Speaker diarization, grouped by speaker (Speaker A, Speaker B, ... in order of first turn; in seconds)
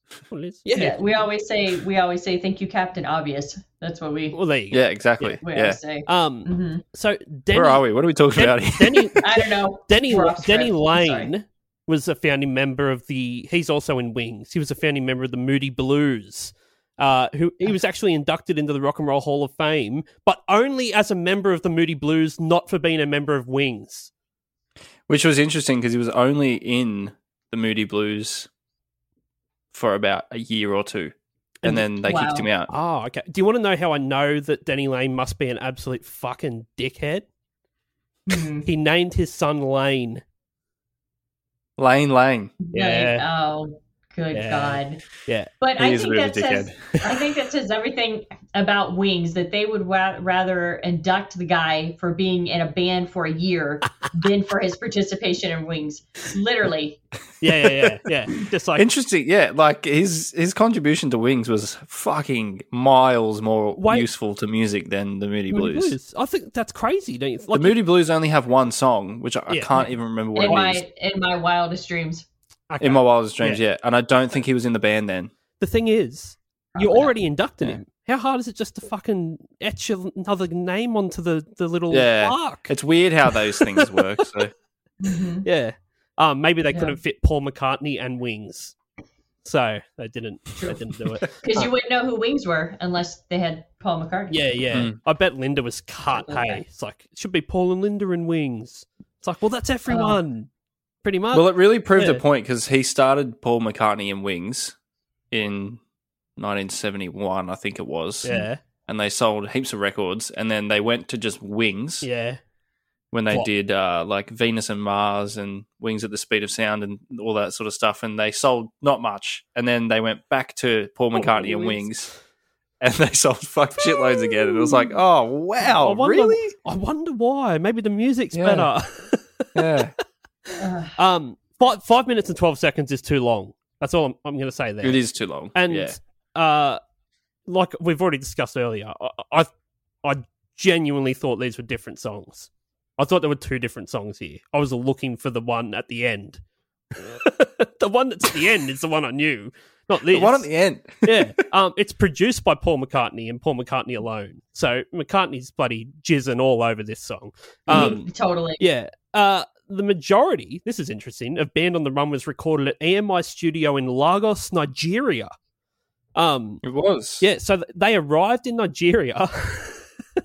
Speaker A: 0.3-1.2, 4.3-5.4, 6.0-9.3, 9.9-24.1, 32.7-37.2, 38.6-40.2, 42.7-43.2, 44.3-45.5, 57.4-58.9, 63.8-64.1, 65.5-67.8, 69.5-69.8, 72.7-73.6, 75.6-82.7, 83.3-84.2, 85.4-88.7, 89.4-91.7, 94.3-100.5, 101.0-102.2, 108.2-108.6, 112.0-112.4, 121.1-121.9, 125.8-129.8, 130.9-135.0, 135.5-136.8, 137.5-139.5, 140.0-146.4, 146.9-150.5, 151.0-158.1, 158.6-165.3, 166.2-166.6, 167.2-169.9
Speaker B: 0.7-4.4, 5.4-6.8, 9.2-11.3, 32.0-32.5, 38.3-38.7, 42.6-45.0, 45.6-57.0, 70.3-72.2, 76.7-77.1, 85.0-85.5, 86.7-87.0, 91.4-94.4, 96.1-96.6, 99.9-100.2, 130.6-130.9, 157.7-158.6
Speaker C: 4.7-5.8, 7.5-9.3, 25.1-28.5, 29.7-32.7, 41.8-42.5, 45.8-46.8, 58.8-66.0, 67.5-70.8, 72.8-75.3, 81.9-84.5, 101.3-104.7, 105.3-105.8, 106.4-108.3, 108.9-112.1, 113.1-122.1, 122.8-126.5, 128.3-128.7, 129.5-129.9, 134.8-136.0, 150.1-151.3, 157.7-158.0, 166.6-167.2